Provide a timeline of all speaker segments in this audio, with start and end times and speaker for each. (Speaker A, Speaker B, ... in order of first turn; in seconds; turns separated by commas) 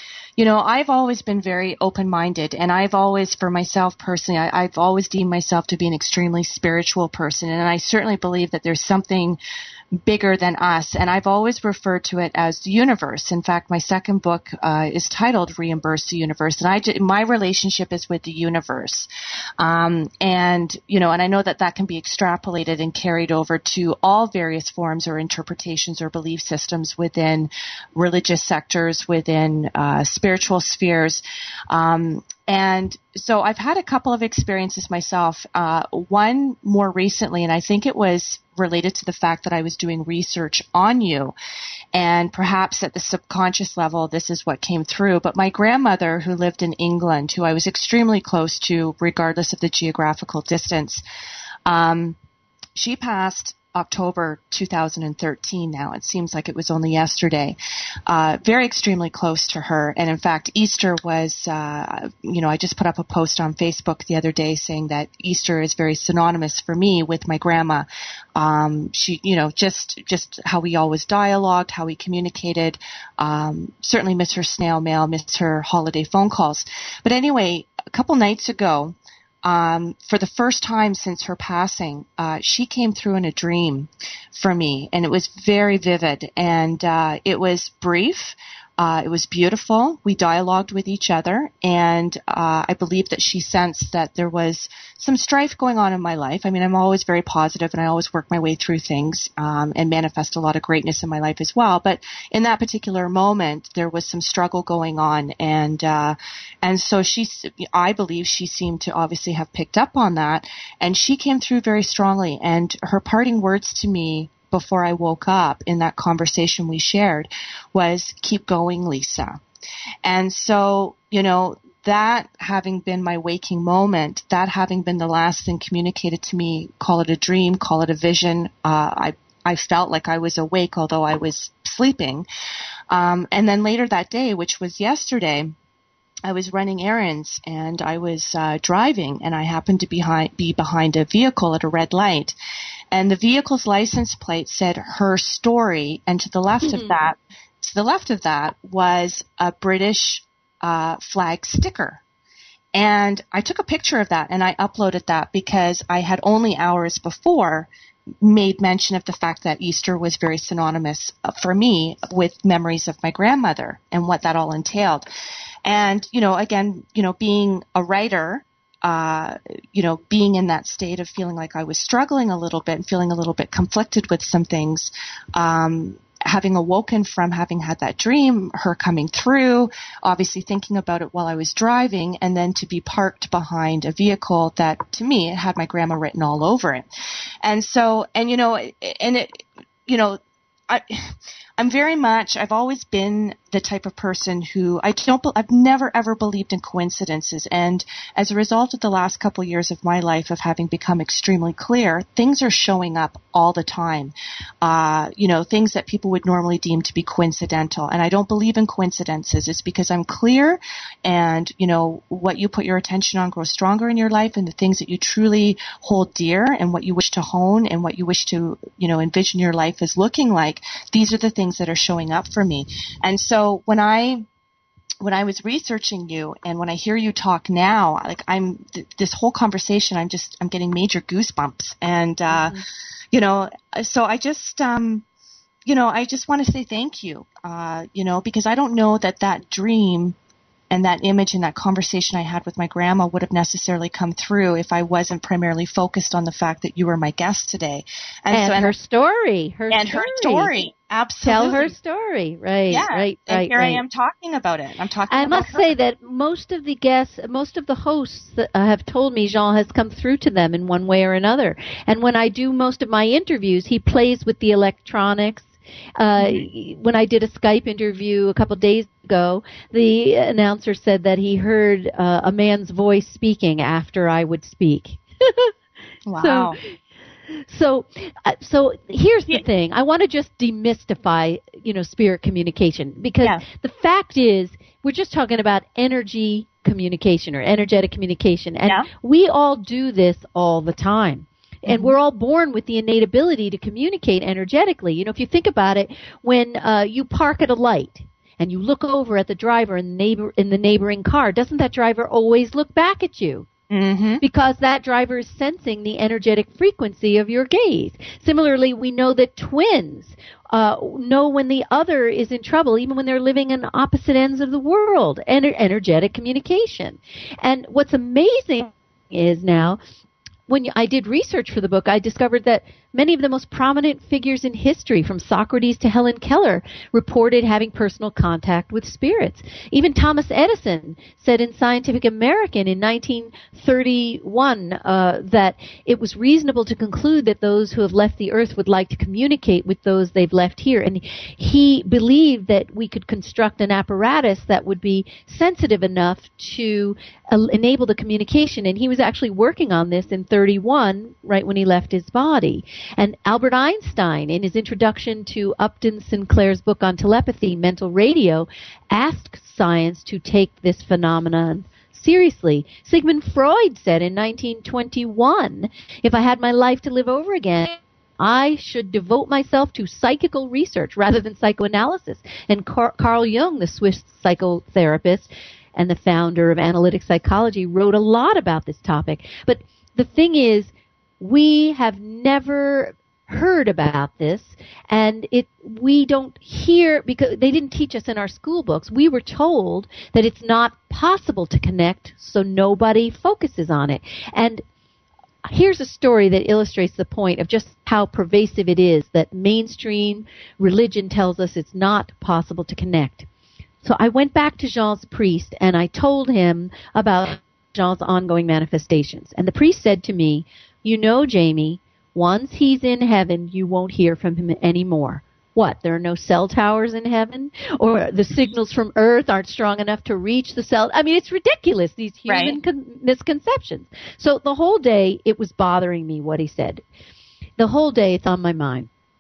Speaker A: 0.4-9.4, Speaker A: 10.0-41.3, Speaker A: 41.9-51.0, Speaker A: 51.7-52.2, Speaker A: 52.8-119.4, Speaker A: 120.0-132.3, Speaker A: 132.9-135.6, Speaker A: 136.3-142.3, Speaker A: 142.9-152.0, Speaker B: 146.6-146.9, Speaker A: 152.7-157.7, Speaker A: 158.2-165.1, Speaker A: 165.7-186.9, Speaker A: 187.4-224.3, Speaker A: 225.0-232.6, Speaker B: 232.3-232.6, Speaker A: 233.1-235.1, Speaker A: 235.7-240.2, Speaker A: 240.7-248.7, Speaker B: 248.3-250.5, Speaker A: 249.7-251.7, Speaker B: 251.2-253.8, Speaker A: 252.7-255.7, Speaker B: 255.1-275.5, Speaker A: 266.2-266.4, Speaker A: 276.1-276.6, Speaker B: 276.2-276.6, Speaker B: 277.5-303.5, Speaker A: 291.7-291.9, Speaker A: 303.7-304.2, Speaker B: 304.2-319.8, Speaker B: 320.5-394.6, Speaker B: 395.4-403.3, Speaker B: 403.8-426.8, Speaker A: 422.3-422.6, Speaker B: 427.6-428.9